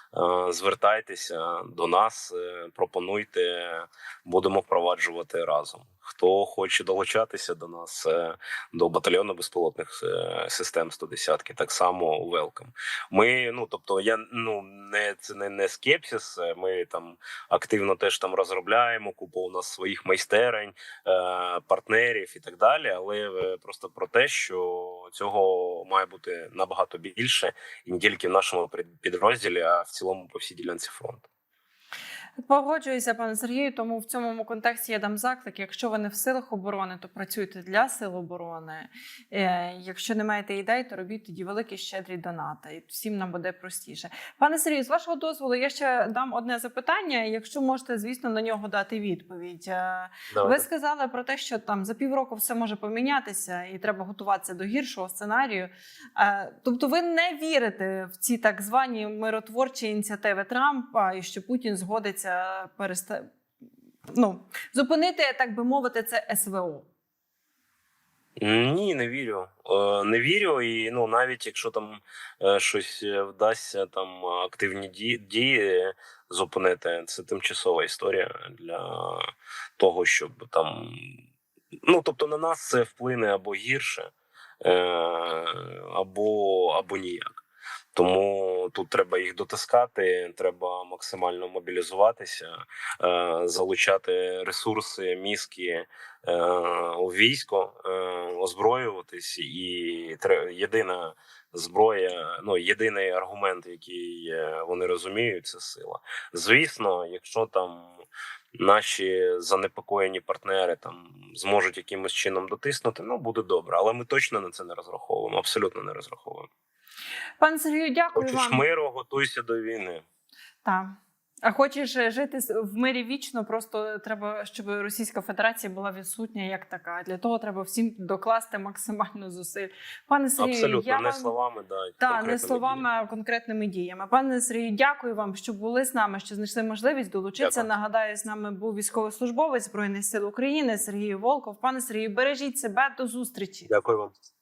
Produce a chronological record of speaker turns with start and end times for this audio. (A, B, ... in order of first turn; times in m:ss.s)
0:00.1-0:31.3 A
0:32.4-1:03.3 B
0:50.3-0:50.6 A
1:04.1-1:06.9 B
1:08.4-1:21.2 A
1:21.8-1:24.1 A
1:24.6-1:48.0 A
1:48.6-1:56.5 A
1:57.4-1:58.7 B
1:58.2-2:00.0 A
2:00.6-2:11.3 B
2:10.4-2:12.8 A
2:12.0-2:23.7 B
2:17.4-2:17.7 A
2:23.7-2:24.1 A